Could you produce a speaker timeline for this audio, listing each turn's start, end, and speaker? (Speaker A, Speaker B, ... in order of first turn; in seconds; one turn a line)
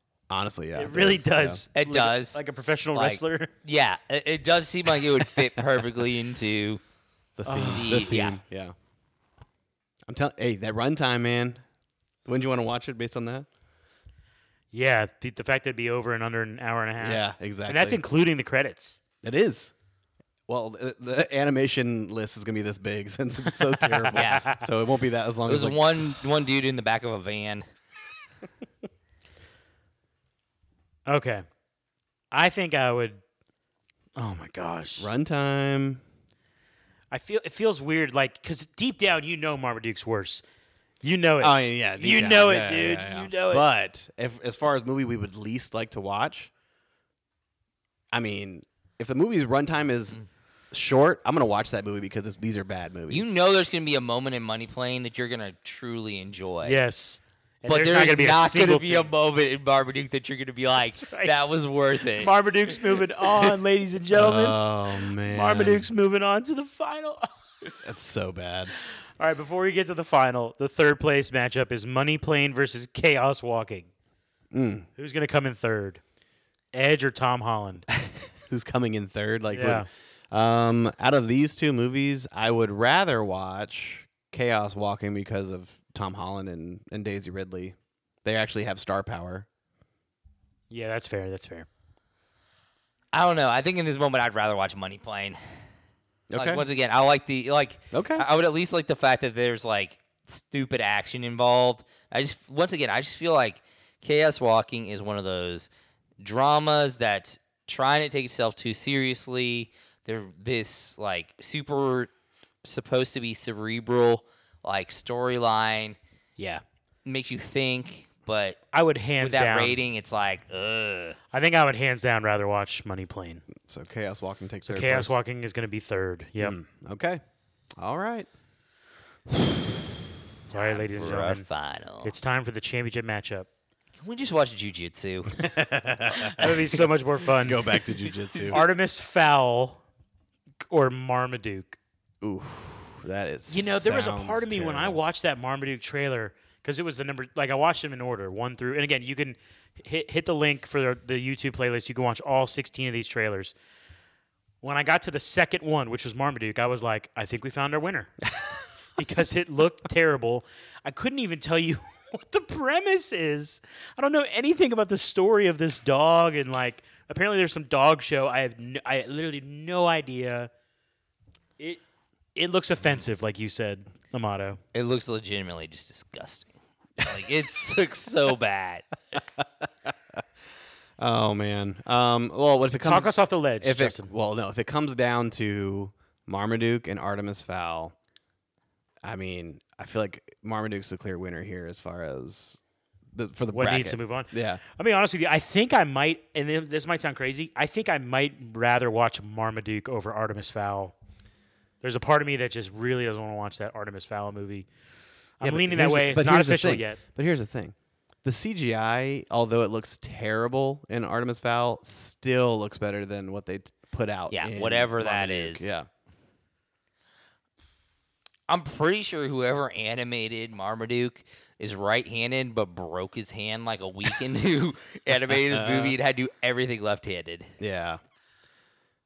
Speaker A: 0.3-1.6
Speaker B: 0.7-3.5
Speaker C: 1.7-2.4
Speaker C: 2.9-6.8
Speaker A: 7.4-8.7
Speaker B: 7.5-8.1
Speaker C: 7.7-8.4
Speaker A: 10.1-11.6
Speaker A: 12.2-13.5
Speaker B: 14.7-19.0
Speaker A: 17.0-18.0
Speaker A: 19.2-19.7
Speaker A: 20.5-26.0
Speaker B: 23.8-24.7
Speaker C: 24.1-24.5
Speaker C: 25.4-27.6
Speaker B: 31.1-31.4
Speaker B: 32.3-33.2
Speaker B: 34.1-35.1
Speaker A: 35.0-36.0
Speaker B: 37.1-40.4
Speaker B: 41.0-43.7
Speaker A: 41.4-46.5
Speaker A: 48.1-50.2
Speaker A: 50.7-53.4
Speaker C: 53.1-56.8
Speaker B: 56.6-59.1
Speaker C: 57.7-62.3
Speaker B: 60.9-61.3
Speaker B: 62.2-67.3
Speaker A: 64.1-65.9
Speaker A: 67.8-68.7
Speaker B: 69.2-73.9
Speaker A: 74.5-74.9
Speaker B: 75.0-76.0
Speaker B: 76.7-77.9
Speaker A: 77.9-89.5
Speaker B: 79.5-79.9
Speaker B: 90.7-91.7
Speaker C: 93.1-95.4
Speaker A: 96.3-96.6
Speaker C: 96.3-105.7
Speaker A: 97.9-98.2
Speaker C: 106.2-112.1
Speaker C: 112.6-116.0
Speaker B: 116.4-116.6
Speaker C: 117.0-118.6
Speaker B: 118.7-119.8
Speaker C: 119.2-121.2
Speaker B: 121.3-123.5
Speaker A: 123.6-125.1
Speaker B: 124.6-126.5
Speaker A: 126.4-127.2
Speaker A: 127.8-128.3
Speaker B: 130.5-131.4
Speaker C: 130.5-132.1
Speaker B: 132.0-133.5
Speaker C: 134.0-135.4
Speaker A: 135.4-136.8
Speaker B: 136.1-137.8
Speaker A: 137.4-138.6
Speaker C: 138.3-138.6
Speaker B: 138.5-139.8
Speaker B: 140.7-141.8
Speaker A: 142.2-145.0
Speaker B: 143.5-153.5
Speaker B: 154.6-158.1
Speaker B: 159.0-170.5
Speaker B: 172.3-174.6
Speaker C: 174.7-178.8
Speaker A: 181.0-187.9
Speaker B: 182.8-184.1
Speaker A: 189.0-192.6
Speaker A: 193.1-194.6
Speaker B: 193.5-200.9
Speaker B: 201.8-204.7
Speaker B: 205.4-207.0
Speaker A: 205.4-215.9
Speaker C: 214.3-215.8
Speaker C: 218.5-227.5
Speaker A: 225.5-226.0
Speaker A: 227.6-228.0